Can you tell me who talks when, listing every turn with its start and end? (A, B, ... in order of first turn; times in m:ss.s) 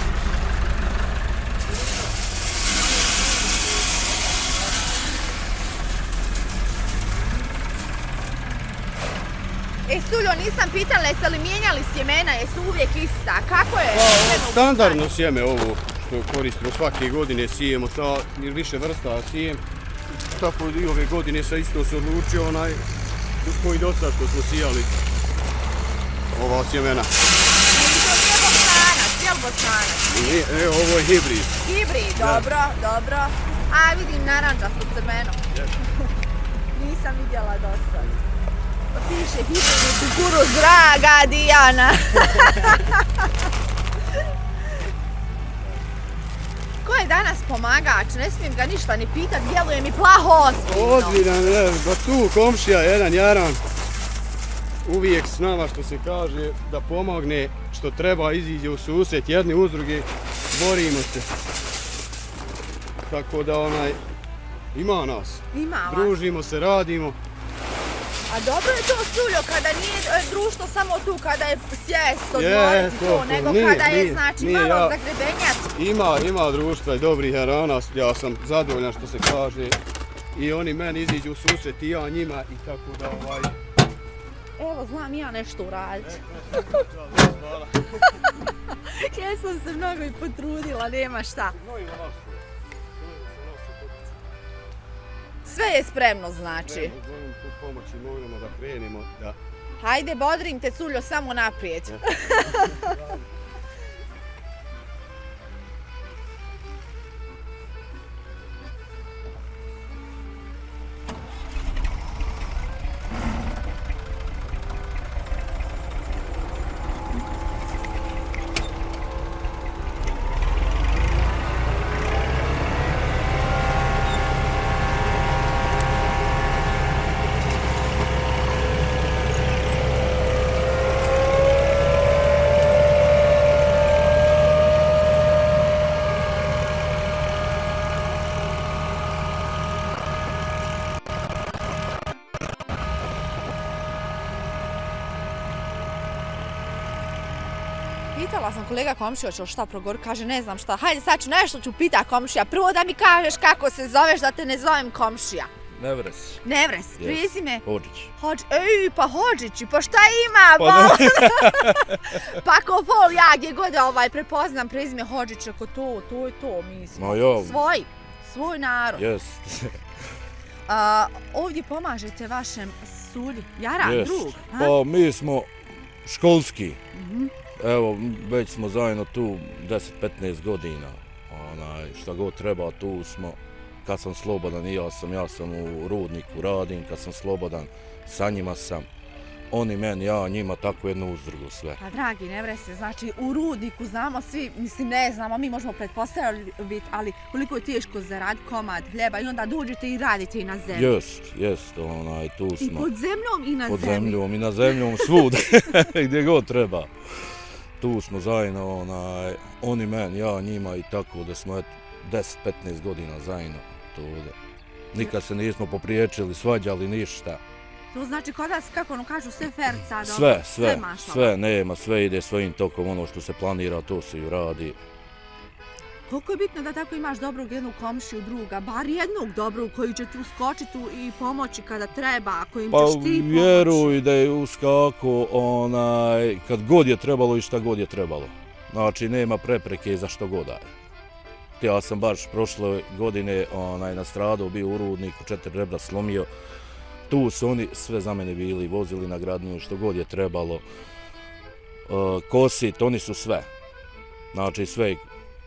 0:09.9-0:15.0 A
0:13.9-0:19.6 B
0:20.3-0:22.8 B
0:23.4-0:25.0 B
0:26.3-0:27.1 B
0:27.6-0:30.4 A
0:30.1-0:31.5 B
0:31.6-0:35.4 A
0:36.7-0:38.1 A
0:38.9-0:43.0 A
0:46.8-0:51.2 A
0:50.7-0:53.6 B
0:54.8-1:01.3 B
1:03.1-1:04.0 B
1:04.7-1:07.2 B
1:05.5-1:06.2 A
1:08.3-1:15.7 A
1:12.3-1:15.0 B
1:15.8-1:19.8 B
1:20.3-1:23.6 B
1:24.6-1:26.9 A
1:26.0-1:28.1 B
1:28.8-1:31.6 A
1:31.6-1:32.4 B
1:33.0-1:34.1 B
1:35.4-1:37.0 A
1:36.7-1:39.4 B
1:39.8-1:42.9 A
1:42.5-1:43.2 B
2:28.2-2:35.5 A
2:35.8-2:36.4 C
2:36.4-2:37.6 A
2:37.0-2:38.1 C
2:38.2-2:49.0 A
2:40.6-2:42.2 C
2:47.0-2:47.6 C
2:49.0-2:49.8 C
2:50.7-2:54.8 A
2:53.8-2:55.5 C
2:56.0-2:56.8 C
2:56.9-2:57.3 A
2:57.6-3:08.9 C
3:09.5-3:11.8 C
3:11.8-3:20.9 A
3:20.7-3:22.9 C
3:22.6-3:24.2 A
3:23.7-3:34.4 C
3:24.7-3:25.1 A
3:34.9-3:37.4 C
3:37.9-3:41.4 A
3:40.0-3:44.8 C
3:46.1-3:53.9 A
3:52.7-4:00.7 C
4:01.6-4:06.3 C
4:07.1-4:10.6 C
4:11.9-4:13.5 C
4:14.3-4:15.1 C